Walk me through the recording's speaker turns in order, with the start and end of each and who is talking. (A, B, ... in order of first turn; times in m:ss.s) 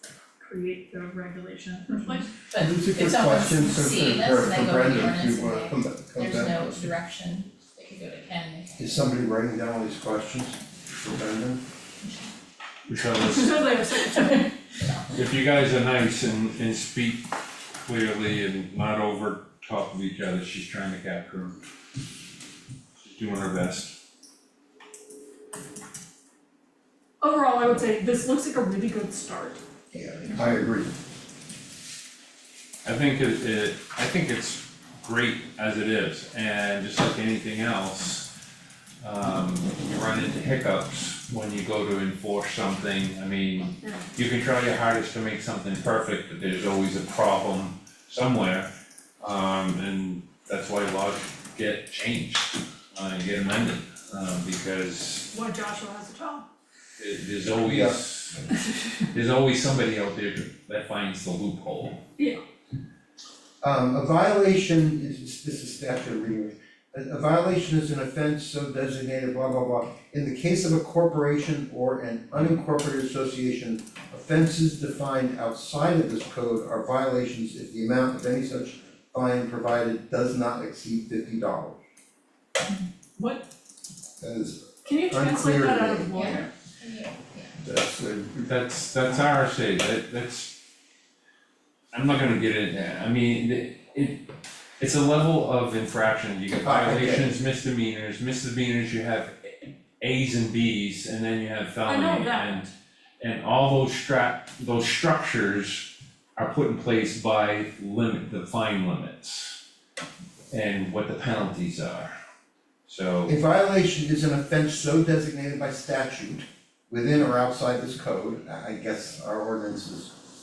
0:00.4-0:02.3 A
0:02.5-0:08.8 B
0:02.5-0:06.9 C
0:08.8-0:11.6 C
0:12.9-0:13.6 D
0:13.3-0:14.5 A
0:14.0-0:14.4 B
0:15.1-0:17.2 D
0:17.8-0:21.6 D
0:23.0-0:23.9 D
0:27.2-0:29.6 A
0:29.9-0:30.9 C
0:32.8-0:38.3 D
0:39.0-0:48.7 D
0:43.8-0:44.1 A
0:49.2-0:55.2 D
0:55.3-0:56.4 A
0:57.0-0:58.5 D
0:57.6-0:58.0 C
0:59.1-1:02.0 D
1:03.6-1:21.8 C
1:23.2-1:23.4 A
1:24.2-1:26.4 C
1:24.8-1:26.5 A
1:26.2-1:27.5 B
1:27.6-1:28.4 C
1:28.4-1:30.5 D
1:31.9-1:34.2 D
1:34.8-1:42.7 D
1:36.6-1:37.3 C
1:41.9-1:42.7 A
1:43.2-1:49.6 D
1:50.5-1:52.1 D
1:52.9-1:53.4 D
1:53.3-2:00.1 C